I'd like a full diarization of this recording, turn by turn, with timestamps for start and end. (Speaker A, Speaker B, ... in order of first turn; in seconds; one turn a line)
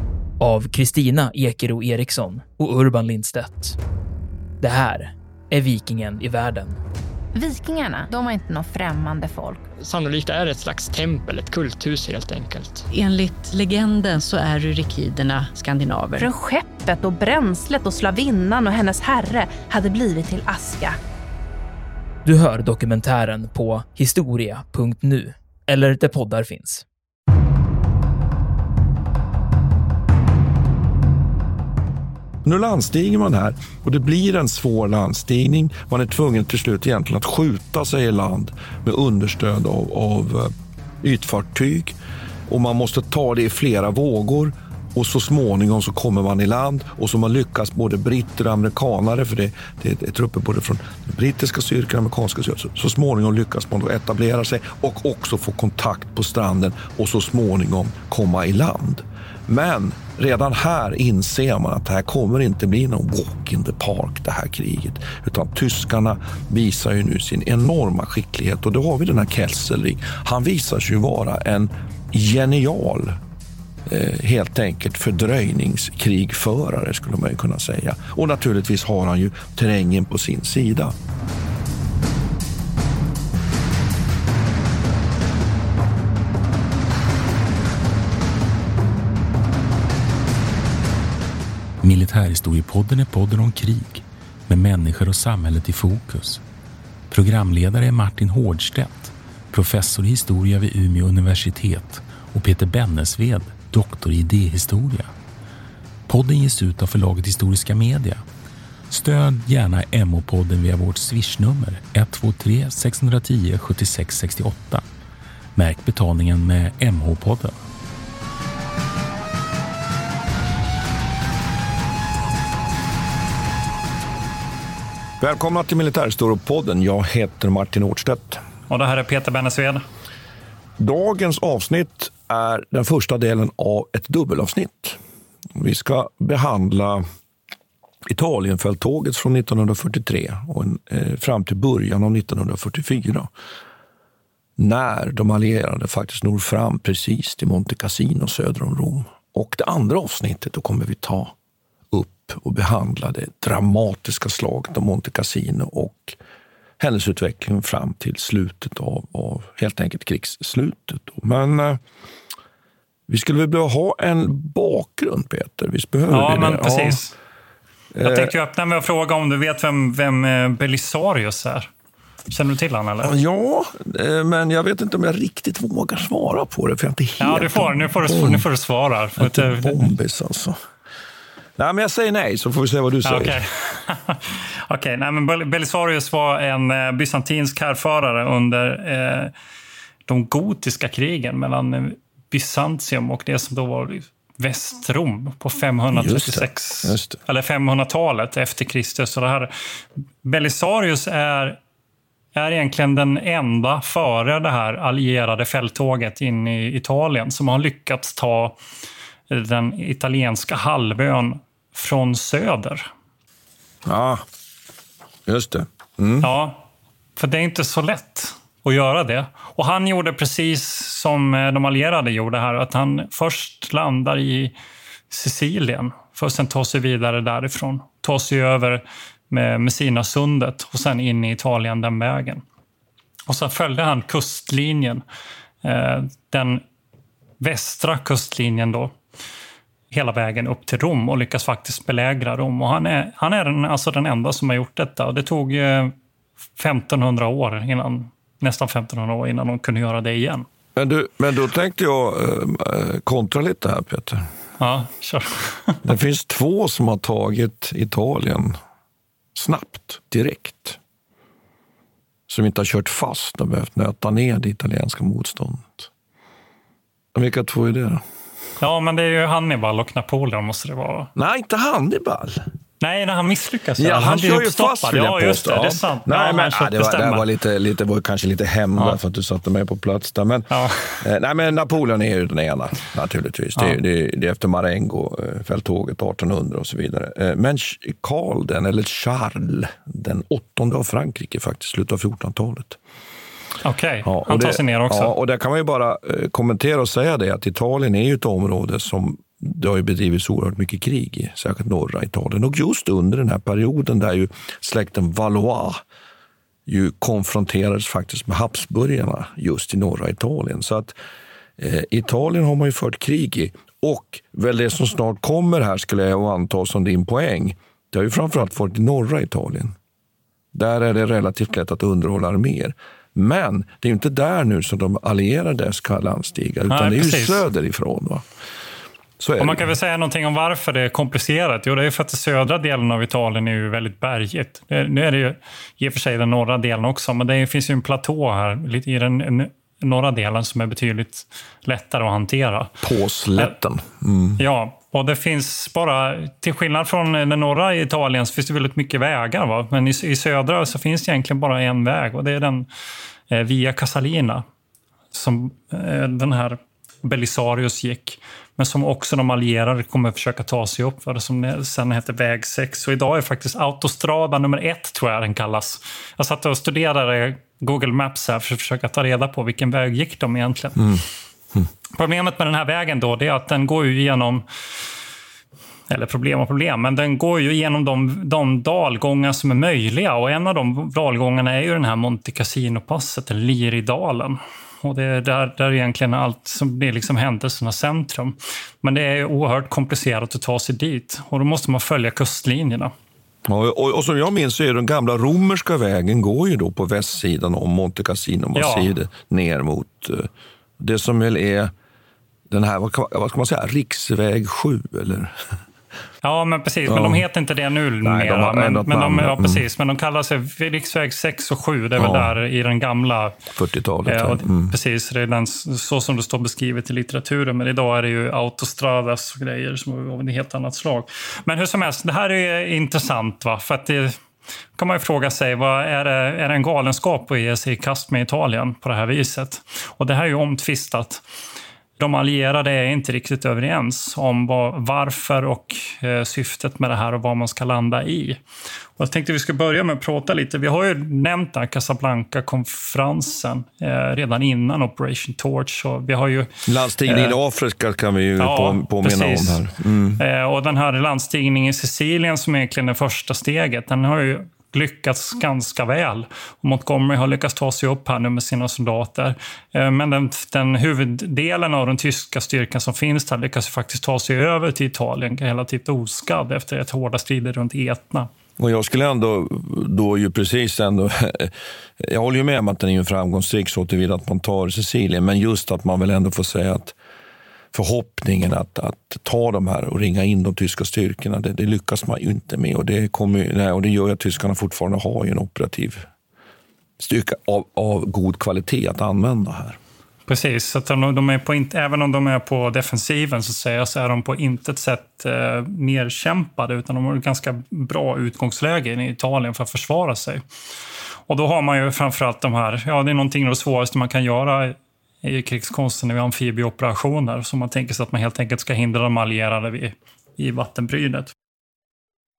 Speaker A: 0.4-3.8
Speaker A: 4.6-6.8
Speaker B: 7.3-9.6
Speaker C: 9.8-12.8
Speaker D: 12.9-16.3
Speaker B: 16.2-21.0
Speaker A: 22.2-26.9
Speaker E: 32.4-40.5
Speaker E: 41.0-42.0
Speaker E: 42.5-73.2
Speaker E: 73.8-80.9
Speaker F: 91.8-96.4
Speaker F: 97.1-105.1
Speaker F: 106.1-108.2
Speaker F: 108.9-114.8
Speaker F: 115.5-117.5
Speaker E: 125.2-128.4
Speaker G: 128.7-129.8
Speaker E: 130.8-135.0
Speaker E: 135.6-137.0
Speaker E: 138.1-143.3
Speaker E: 144.6-151.3
Speaker E: 151.9-156.2
Speaker E: 156.8-161.8
Speaker E: 163.1-167.0
Speaker G: 166.1-167.1
Speaker E: 167.9-168.3
Speaker G: 168.0-171.7
Speaker G: 172.3-173.1
Speaker E: 173.0-178.4
Speaker G: 177.2-179.8
Speaker E: 179.2-180.6
Speaker E: 181.6-183.4
Speaker G: 183.0-189.3
Speaker G: 190.1-199.5
Speaker E: 195.9-197.2
Speaker G: 200.2-201.6
Speaker G: 202.3-208.6
Speaker G: 209.3-212.9
Speaker E: 213.8-214.2
Speaker E: 215.2-216.3
Speaker G: 216.2-216.6
Speaker G: 217.2-224.5
Speaker G: 225.1-232.4
Speaker G: 233.3-235.0
Speaker G: 235.6-236.6
Speaker G: 237.4-238.9
Speaker G: 239.9-245.9
Speaker G: 246.6-250.4
Speaker E: 250.7-254.2
Speaker G: 254.6-255.8
Speaker E: 255.8-258.6
Speaker E: 259.3-260.8
Speaker E: 262.3-265.9
Speaker E: 267.1-268.0
Speaker G: 268.6-271.1
Speaker E: 271.1-272.4
Speaker G: 272.8-277.3
Speaker E: 273.8-292.8
Speaker G: 280.5-281.0
Speaker G: 293.6-295.1
Speaker E: 294.0-305.8
Speaker E: 306.6-310.9
Speaker E: 311.6-319.7
Speaker E: 320.5-328.2
Speaker G: 326.7-327.4
Speaker E: 329.2-329.7
Speaker G: 329.4-342.7
Speaker E: 342.8-344.4
Speaker G: 344.4-352.7
Speaker G: 353.3-354.4
Speaker G: 355.1-370.9
Speaker E: 370.8-371.7
Speaker G: 371.9-374.4
Speaker G: 375.9-392.9
Speaker E: 393.4-401.7
Speaker G: 398.5-398.9
Speaker E: 402.5-405.3
Speaker G: 406.2-413.4
Speaker E: 406.9-407.2
Speaker E: 408.0-409.6
Speaker E: 412.0-412.4
Speaker E: 413.5-414.7
Speaker G: 414.1-424.2
Speaker G: 424.8-431.2
Speaker G: 432.0-438.4
Speaker G: 439.0-446.5
Speaker E: 446.6-450.2
Speaker G: 447.0-447.4
Speaker G: 448.4-449.6
Speaker G: 450.2-468.3
Speaker E: 468.6-476.9
Speaker E: 477.7-486.1
Speaker E: 487.0-489.8
Speaker G: 490.3-500.4
Speaker G: 501.3-511.3